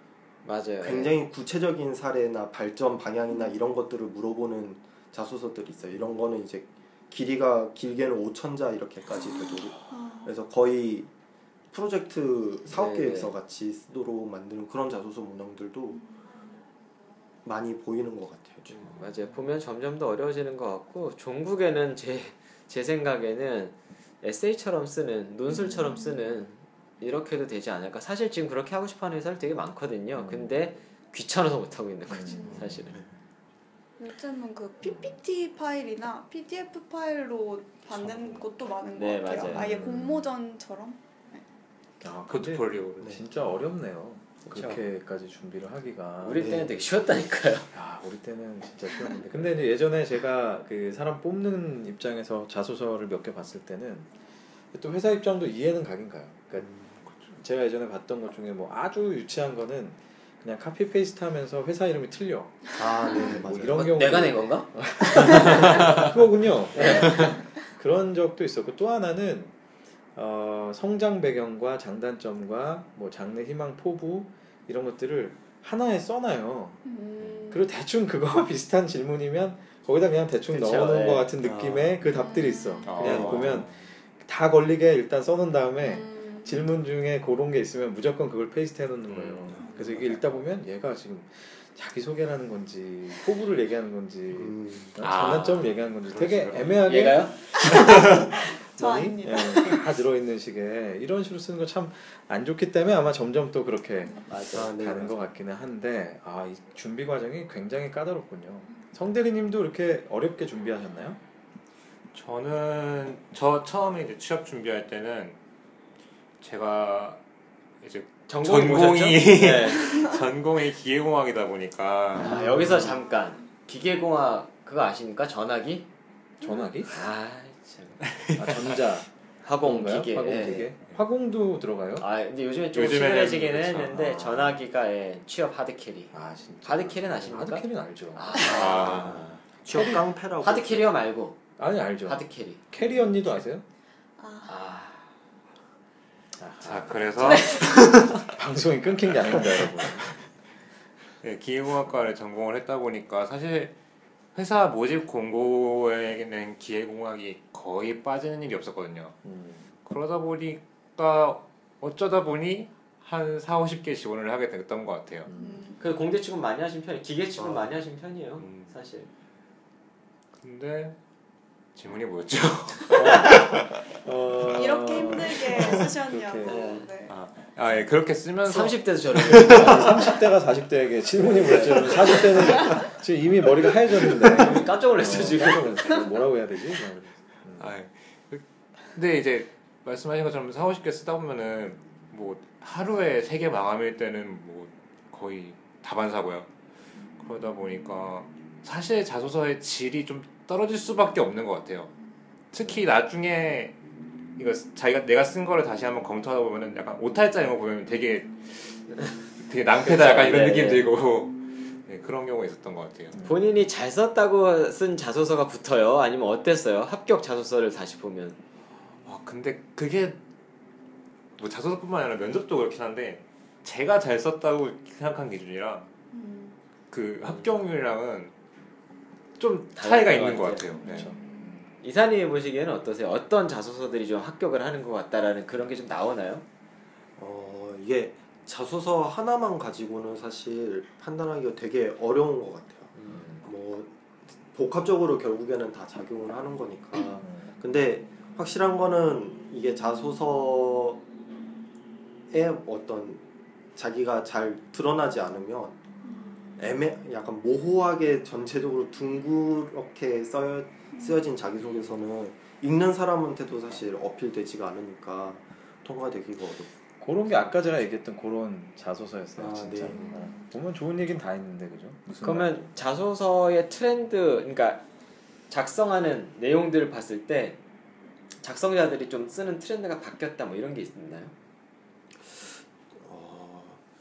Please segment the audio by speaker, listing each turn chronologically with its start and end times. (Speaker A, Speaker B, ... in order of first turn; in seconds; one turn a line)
Speaker A: 0.4-1.1
Speaker B: 0.8-11.1
Speaker C: 9.9-10.3
Speaker B: 11.7-16.0
Speaker A: 12.7-13.3
Speaker B: 17.4-18.9
Speaker A: 18.7-33.0
Speaker D: 30.1-30.6
Speaker D: 32.1-33.0
Speaker C: 32.3-32.7
Speaker C: 34.0-41.4
Speaker D: 34.8-35.2
Speaker A: 38.9-39.9
Speaker D: 39.5-40.3
Speaker D: 42.0-46.4
Speaker E: 42.3-43.2
Speaker A: 44.4-44.8
Speaker A: 46.2-47.7
Speaker B: 46.3-46.7
Speaker D: 47.7-54.1
Speaker D: 54.7-69.5
Speaker B: 56.6-56.8
Speaker B: 62.8-64.2
Speaker A: 63.7-66.1
Speaker A: 66.7-67.4
Speaker C: 67.0-67.3
Speaker D: 70.1-76.8
Speaker C: 76.8-77.7
Speaker D: 77.5-111.2
Speaker A: 80.5-81.3
Speaker E: 81.4-82.0
Speaker C: 82.1-83.1
Speaker E: 82.8-83.8
Speaker C: 85.8-86.6
Speaker E: 89.1-90.1
Speaker C: 89.6-89.9
Speaker B: 94.3-95.0
Speaker E: 95.0-96.9
Speaker A: 96.8-97.4
Speaker C: 97.6-99.9
Speaker A: 104.3-104.8
Speaker B: 104.5-105.3
Speaker E: 112.1-115.4
Speaker E: 116.4-117.2
Speaker E: 117.8-122.4
Speaker A: 118.3-120.1
Speaker A: 122.2-125.9
Speaker B: 122.2-122.9
Speaker D: 126.4-126.9
Speaker C: 126.4-126.7
Speaker A: 126.9-128.0
Speaker E: 128.1-128.6
Speaker D: 128.3-129.1
Speaker A: 129.4-130.7
Speaker D: 129.6-132.1
Speaker A: 132.0-141.4
Speaker E: 132.7-134.1
Speaker D: 133.9-134.6
Speaker D: 136.1-139.4
Speaker E: 138.4-139.3
Speaker B: 139.6-140.9
Speaker D: 141.6-143.6
Speaker A: 142.0-142.6
Speaker C: 144.2-144.5
Speaker A: 144.4-145.0
Speaker D: 146.4-150.2
Speaker E: 146.6-148.1
Speaker C: 147.2-148.0
Speaker E: 151.2-153.7
Speaker E: 154.3-159.2
Speaker D: 159.2-159.7
Speaker E: 159.8-165.3
Speaker D: 165.2-165.6
Speaker C: 165.3-165.8
Speaker A: 165.8-169.1
Speaker B: 167.4-167.7
Speaker E: 168.4-168.7
Speaker E: 170.4-170.9
Speaker E: 171.7-173.7
Speaker D: 172.9-176.8
Speaker C: 174.5-177.1
Speaker A: 176.4-176.9
Speaker E: 177.1-180.0
Speaker A: 178.4-180.0
Speaker D: 179.4-187.7
Speaker A: 181.1-182.7
Speaker A: 184.2-186.0
Speaker E: 187.6-196.5
Speaker E: 197.2-201.9
Speaker E: 202.5-203.8
Speaker E: 204.4-213.2
Speaker A: 209.8-210.9
Speaker D: 213.1-213.5
Speaker A: 213.2-218.4
Speaker E: 219.0-220.2
Speaker E: 221.4-225.9
Speaker C: 226.1-226.6
Speaker E: 226.9-228.3
Speaker E: 229.4-231.1
Speaker A: 229.7-230.7
Speaker D: 230.8-231.7
Speaker C: 230.8-231.6
Speaker A: 231.8-236.4
Speaker B: 237.2-243.9
Speaker A: 242.9-243.2
Speaker D: 243.1-243.5
Speaker B: 244.5-251.0
Speaker D: 247.2-247.5
Speaker B: 252.3-253.2
Speaker B: 253.7-255.8
Speaker B: 256.6-266.7
Speaker D: 267.0-272.7
Speaker B: 269.4-270.1
Speaker C: 269.9-270.4
Speaker A: 272.2-274.9
Speaker A: 275.5-277.6
Speaker A: 278.4-281.3
Speaker B: 282.3-283.8